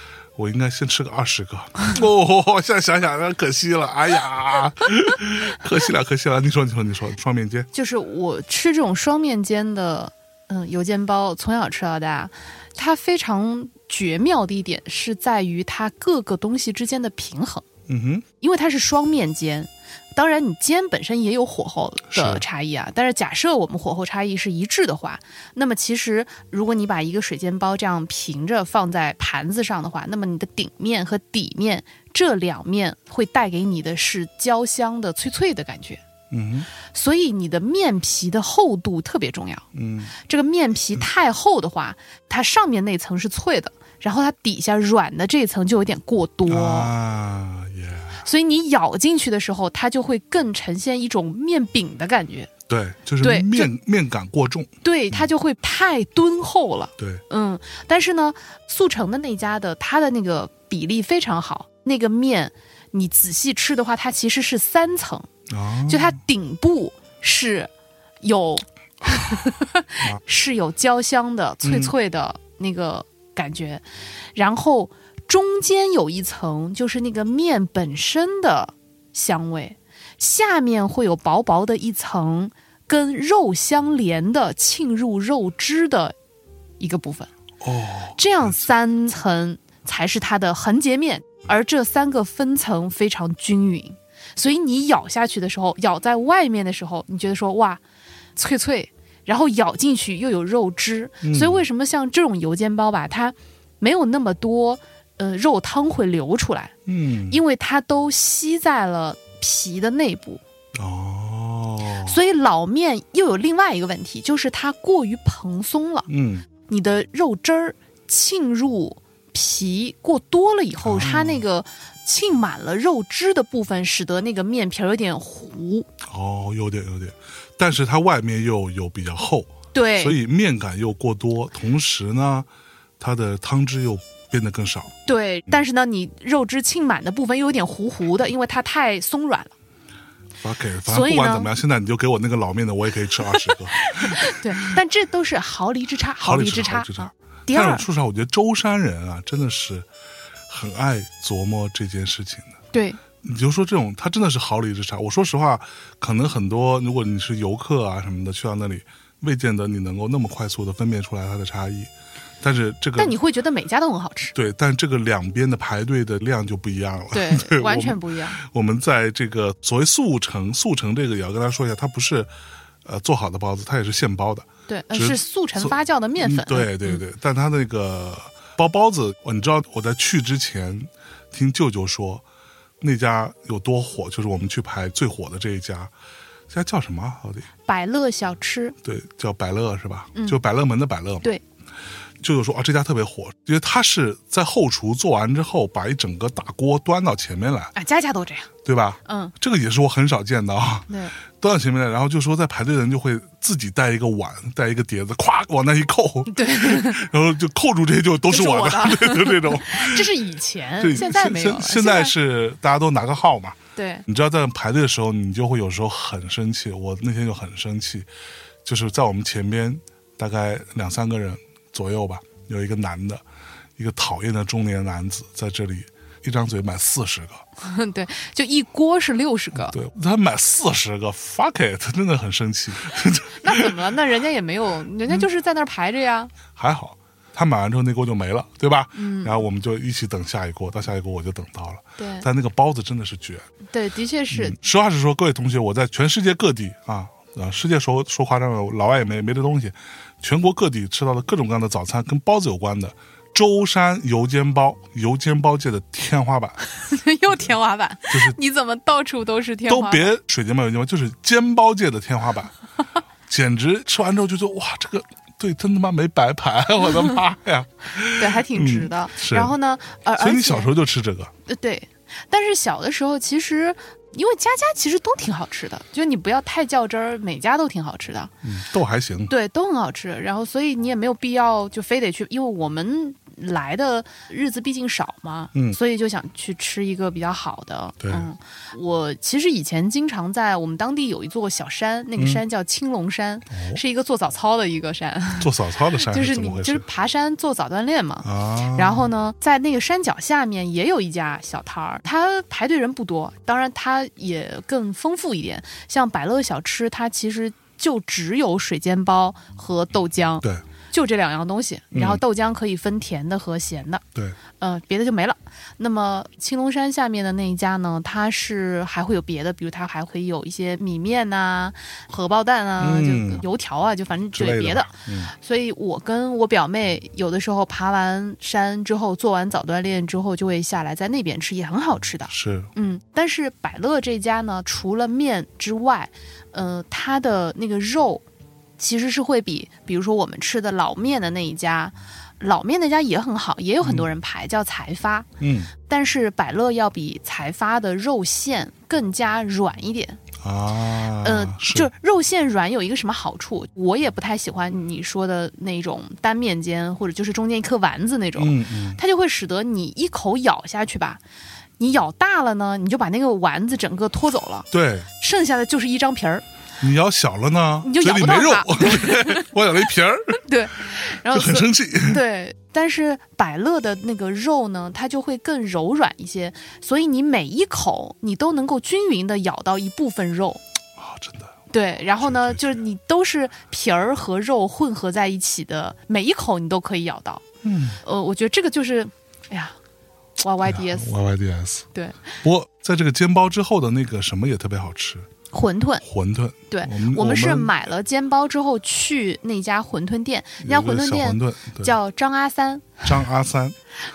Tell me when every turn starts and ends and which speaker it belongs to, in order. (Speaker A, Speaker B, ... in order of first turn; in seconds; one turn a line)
Speaker A: 0.4-7.7
Speaker B: 7.7-17.6
Speaker A: 17.9-18.2
Speaker B: 18.4-36.0
Speaker A: 22.1-22.4
Speaker A: 36.3-36.7
Speaker B: 36.9-39.6
Speaker A: 39.7-40.1
Speaker B: 40.3-46.9
Speaker A: 46.5-48.2
Speaker B: 48.2-52.5
Speaker A: 52.7-55.3
Speaker B: 53.2-53.7
Speaker B: 54.8-65.3
Speaker A: 65.5-66.2
Speaker B: 65.9-67.7
Speaker B: 68.2-73.8
Speaker A: 71.6-71.9
Speaker B: 74.3-86.2
Speaker B: 86.8-87.3
Speaker A: 87.6-88.2
Speaker B: 88.2-97.8
Speaker B: 98.4-106.7
Speaker A: 101.2-101.6
Speaker A: 106.9-107.4
Speaker B: 107.3-110.4
Speaker A: 110.8-112.2
Speaker B: 112.0-116.1
Speaker A: 116.1-116.5
Speaker B: 116.7-125.9
Speaker A: 120.8-121.4
Speaker A: 126.0-132.5
Speaker B: 129.7-130.2
Speaker A: 133.0-134.9
Speaker B: 135.1-139.5
Speaker A: 140.4-144.3
Speaker B: 140.9-141.5
Speaker B: 143.8-147.8
Speaker A: 146.2-149.9
Speaker A: 150.5-152.6
Speaker B: 152.7-153.0
Speaker A: 153.2-161.9
Speaker A: 162.4-163.2
Speaker B: 163.0-164.3
Speaker A: 164.3-172.3
Speaker B: 167.1-168.4
Speaker A: 172.8-182.2
Speaker B: 174.7-177.0
Speaker A: 182.8-185.9
Speaker A: 186.5-187.5
Speaker B: 187.7-188.8
Speaker A: 188.8-191.3
Speaker A: 192.2-197.7
Speaker B: 197.8-198.5
Speaker A: 198.7-210.1
Speaker B: 199.1-199.3
Speaker B: 200.9-201.2
Speaker B: 206.3-207.0
Speaker B: 208.3-212.1
Speaker A: 210.8-218.1
Speaker B: 213.8-214.1
Speaker A: 218.7-223.2
Speaker A: 223.8-227.4
Speaker B: 227.6-229.8
Speaker A: 229.7-233.7
Speaker B: 233.4-236.3
Speaker A: 236.6-243.5
Speaker B: 238.9-239.3
Speaker B: 242.0-242.3
Speaker B: 243.7-244.6
Speaker A: 244.3-256.6
Speaker B: 256.8-260.1
Speaker A: 258.1-258.4
Speaker A: 259.7-262.5
Speaker A: 263.3-269.5
Speaker B: 268.1-270.7
Speaker A: 270.2-271.3
Speaker B: 271.5-278.3
Speaker A: 278.4-279.3
Speaker B: 279.3-314.0
Speaker A: 288.0-288.3
Speaker A: 292.2-292.4
Speaker A: 293.5-293.8
Speaker A: 295.4-296.9
Speaker A: 298.2-299.1
Speaker A: 311.9-312.2
Speaker B: 314.6-338.2
Speaker A: 322.8-323.4
Speaker A: 324.3-325.3
Speaker A: 332.3-332.7
Speaker B: 338.8-345.3
Speaker A: 343.8-344.1
Speaker A: 345.4-345.7
Speaker B: 345.9-350.2
Speaker A: 350.4-351.9
Speaker B: 351.2-361.2
Speaker A: 358.4-359.0
Speaker B: 361.8-364.7
Speaker A: 364.7-365.1
Speaker B: 365.2-366.4
Speaker A: 366.8-370.4
Speaker B: 367.8-369.5
Speaker B: 370.4-380.6
Speaker A: 371.3-372.2
Speaker A: 381.0-381.6
Speaker B: 381.7-387.4
Speaker A: 382.2-382.8
Speaker A: 387.6-388.0
Speaker B: 388.0-389.8
Speaker B: 390.4-391.1
Speaker A: 390.6-391.9
Speaker B: 391.9-392.2
Speaker A: 392.4-395.3
Speaker B: 395.5-396.0
Speaker A: 396.0-397.7
Speaker B: 396.7-403.1
Speaker A: 400.6-402.0
Speaker A: 403.0-403.8